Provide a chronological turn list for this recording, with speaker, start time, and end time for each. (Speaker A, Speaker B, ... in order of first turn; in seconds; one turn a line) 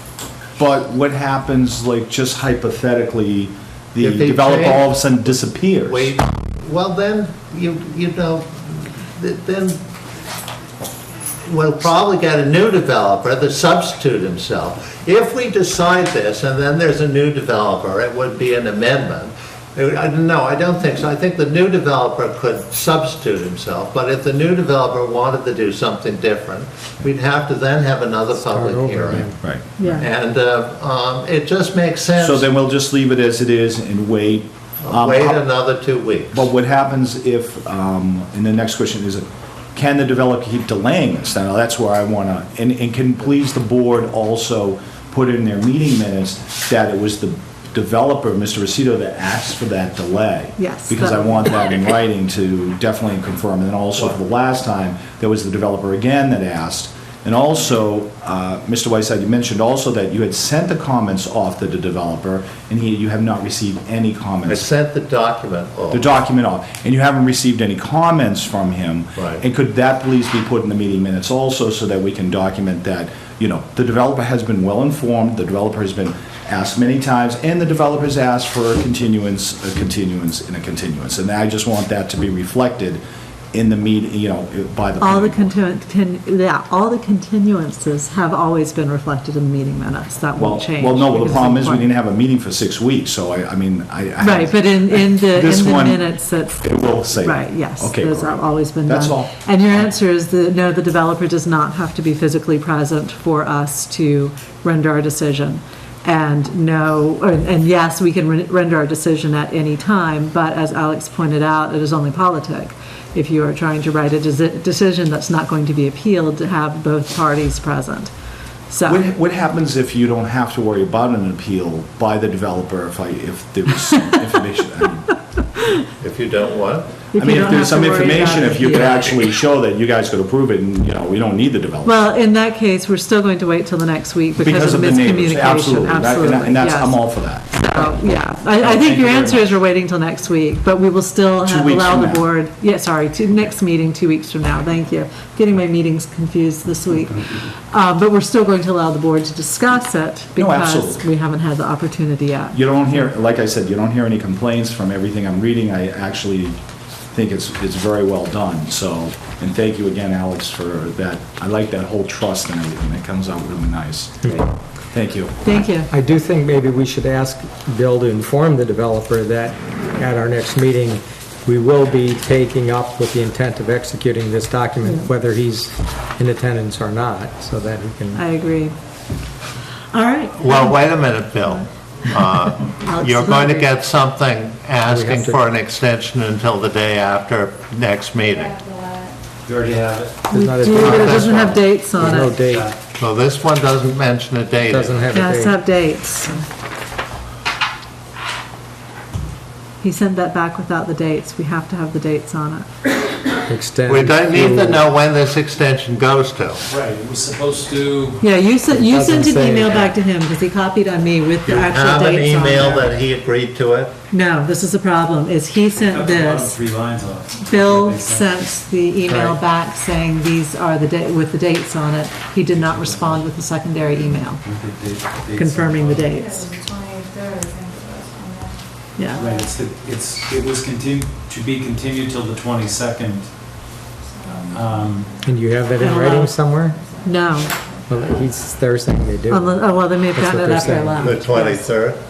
Speaker A: 0.6-6.1
Speaker B: 4.0-4.8
Speaker B: 5.8-9.8
Speaker B: 11.4-29.3
Speaker C: 28.4-29.4
Speaker A: 29.2-29.6
Speaker D: 29.8-30.1
Speaker B: 29.8-32.5
Speaker A: 32.2-35.4
Speaker B: 34.8-36.5
Speaker A: 36.3-64.6
Speaker D: 50.6-51.5
Speaker B: 64.5-66.1
Speaker A: 65.9-83.0
Speaker B: 69.2-69.4
Speaker A: 83.5-85.5
Speaker D: 85.0-91.9
Speaker A: 90.4-96.1
Speaker D: 94.2-118.1
Speaker A: 96.6-99.9
Speaker D: 118.7-119.0
Speaker A: 118.8-125.1
Speaker B: 126.0-126.9
Speaker D: 127.1-129.4
Speaker A: 127.2-132.0
Speaker D: 131.8-152.6
Speaker A: 134.4-137.5
Speaker A: 138.6-139.5
Speaker A: 141.4-142.2
Speaker A: 150.4-151.0
Speaker A: 152.5-156.6
Speaker A: 157.1-165.4
Speaker C: 164.2-164.5
Speaker D: 165.4-165.9
Speaker C: 165.9-178.2
Speaker D: 174.8-175.1
Speaker D: 178.1-178.8
Speaker D: 179.9-180.9
Speaker B: 180.3-188.6
Speaker D: 182.8-183.8
Speaker C: 184.9-185.4
Speaker E: 188.7-189.1
Speaker F: 189.4-190.9
Speaker D: 190.3-192.3
Speaker C: 190.3-192.7
Speaker B: 190.9-191.6
Speaker F: 192.1-192.8
Speaker B: 193.0-195.1
Speaker C: 194.7-195.6
Speaker D: 195.1-196.4
Speaker D: 199.8-202.7
Speaker C: 203.5-204.8
Speaker B: 203.9-206.6
Speaker F: 206.7-208.2
Speaker D: 208.2-212.9
Speaker C: 208.7-209.9
Speaker B: 211.5-213.9
Speaker D: 214.1-216.6
Speaker F: 215.8-218.3
Speaker D: 217.4-224.4
Speaker B: 219.1-219.4
Speaker F: 222.5-223.2
Speaker F: 224.1-226.0
Speaker D: 225.3-226.5
Speaker E: 226.2-228.6
Speaker D: 229.0-229.3
Speaker F: 229.2-233.3
Speaker F: 234.4-235.1
Speaker C: 235.2-236.8
Speaker E: 235.6-236.2
Speaker D: 235.7-236.3
Speaker E: 236.8-237.9
Speaker D: 237.0-237.6
Speaker C: 237.9-239.6
Speaker D: 239.3-241.7
Speaker C: 240.1-241.2
Speaker F: 240.5-241.1
Speaker B: 241.0-242.0